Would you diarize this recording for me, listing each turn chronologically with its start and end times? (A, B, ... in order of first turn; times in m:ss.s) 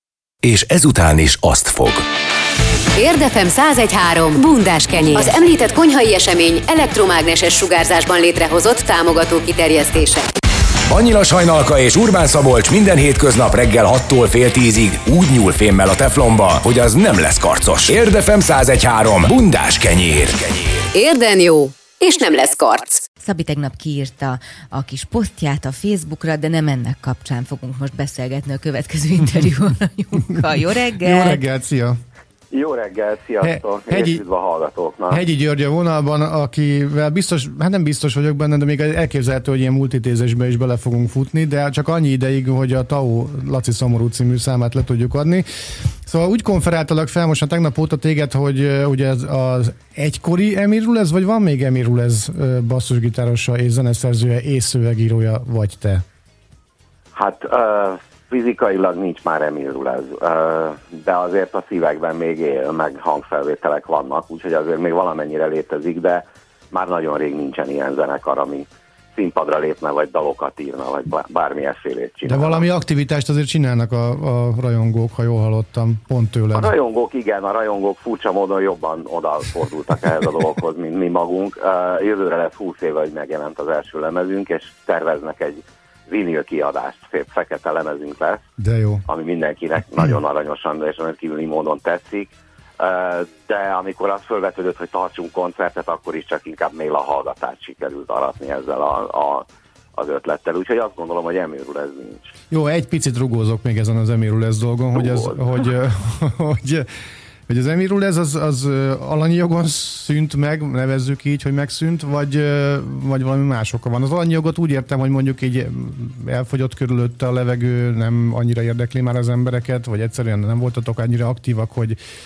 0:00.4-0:02.0 A
0:03.0-0:10.3 B
0:10.9-0:20.8 A
0:20.9-0:23.0 B
0:23.2-0:31.4 C
0:31.0-0:32.0 D
0:32.5-0:35.2 E
0:33.4-0:34.2 D
0:35.1-0:45.4 D
0:46.0-0:56.0 D
0:57.1-1:12.6 E
1:12.3-1:16.7 D
1:16.5-1:28.4 E
1:28.6-1:29.0 D
1:29.0-1:42.3 E
1:42.5-1:46.9 D
1:45.0-1:45.4 E
1:47.5-2:02.0 D